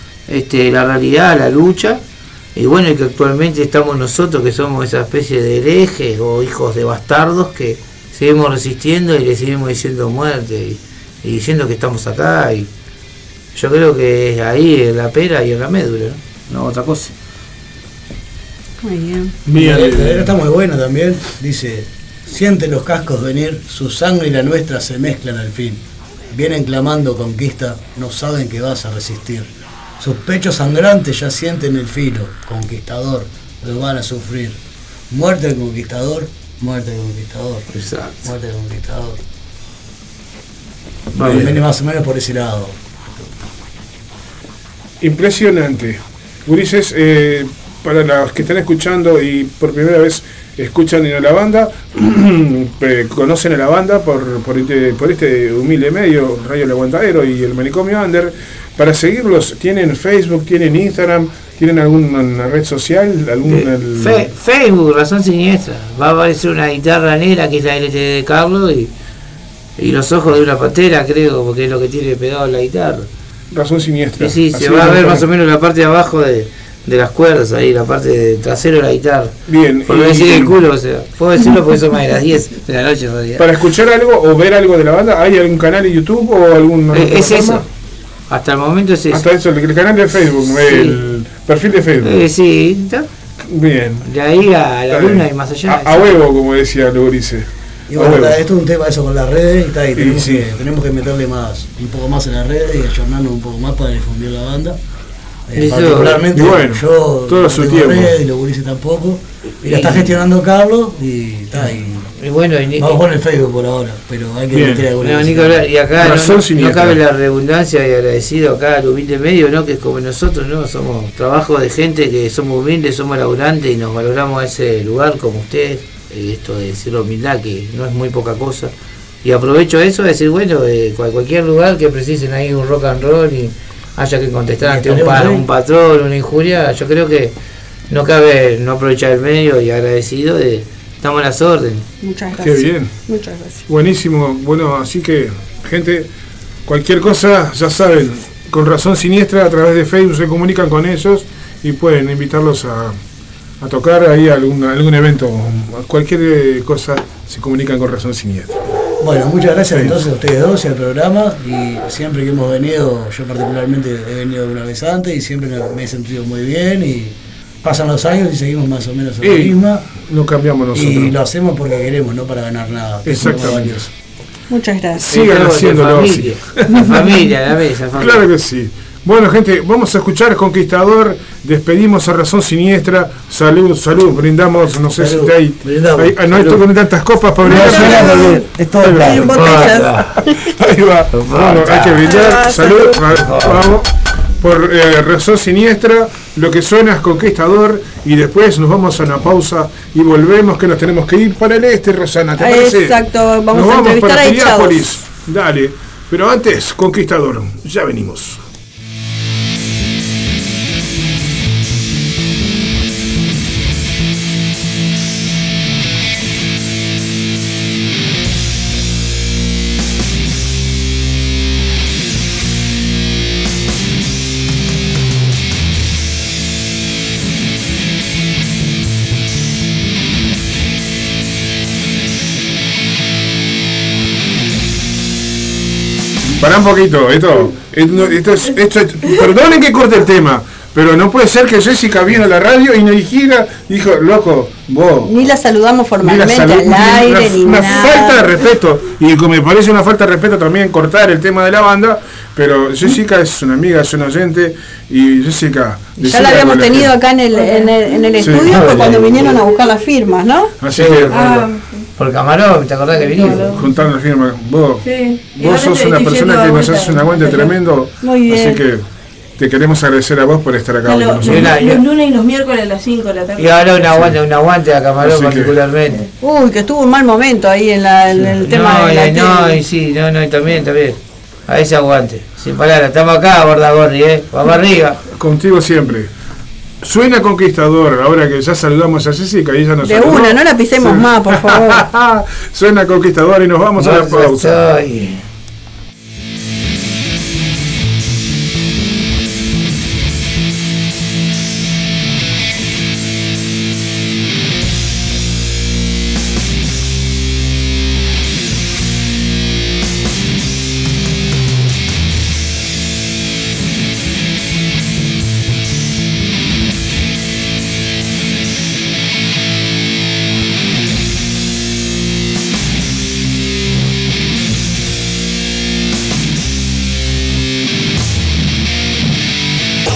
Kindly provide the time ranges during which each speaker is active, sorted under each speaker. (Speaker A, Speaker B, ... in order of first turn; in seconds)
Speaker A: 0.3-2.0, 2.5-12.7, 13.5-17.1, 37.7-38.3, 41.2-41.5, 63.5-68.9, 69.8-73.1, 74.2-83.5, 86.9-87.6, 88.3-89.2, 90.4-91.0, 92.0-93.1, 94.0-96.1, 105.5-106.2, 109.6-110.2, 111.5-113.0, 115.0-128.7, 129.2-137.3, 137.9-141.8, 175.1-178.2, 187.8-188.1, 189.1-190.1, 191.1-192.2, 193.1-193.6, 258.4-259.4, 260.7-261.4, 262.0-263.6, 271.2-271.8, 273.4-276.0, 278.3-285.0, 293.8-295.2
Speaker B: 18.8-19.4, 142.0-143.6, 174.5-175.1, 187.5-190.5, 192.0-193.0, 202.4-204.8, 245.0-248.3, 256.0-260.5, 268.0-268.6, 276.2-279.6, 289.8-291.8
Speaker C: 19.4-20.3, 41.2-41.6, 45.0-64.3, 73.5-75.3, 79.5-80.6, 83.4-87.7, 89.1-92.2, 93.5-94.1, 94.9-98.3, 100.0-100.5, 105.7-108.2, 114.5-114.9, 116.0-117.0, 142.4-142.9, 143.7-146.1, 146.7-153.0, 153.6-158.6, 159.7-160.0, 169.2-171.2, 173.0-173.9, 175.0-177.2, 177.9-193.9, 194.4-208.4, 236.4-245.1, 246.0-256.9, 258.2-258.7, 260.6-261.4, 263.5-268.8, 269.4-271.6, 273.9-274.2, 275.0-275.6, 285.1-286.1, 286.8-294.6
Speaker D: 19.5-25.8, 26.3-29.5, 30.0-34.6, 35.1-37.7, 38.2-39.2, 41.1-42.8, 97.9-104.8, 105.5-112.1, 112.8-115.6, 134.6-135.4, 159.0-169.9, 170.7-173.9, 184.9-186.6, 187.4-189.2
Speaker E: 257.3-258.2, 261.1-261.8, 262.9-263.7, 264.8-267.5, 270.8-273.9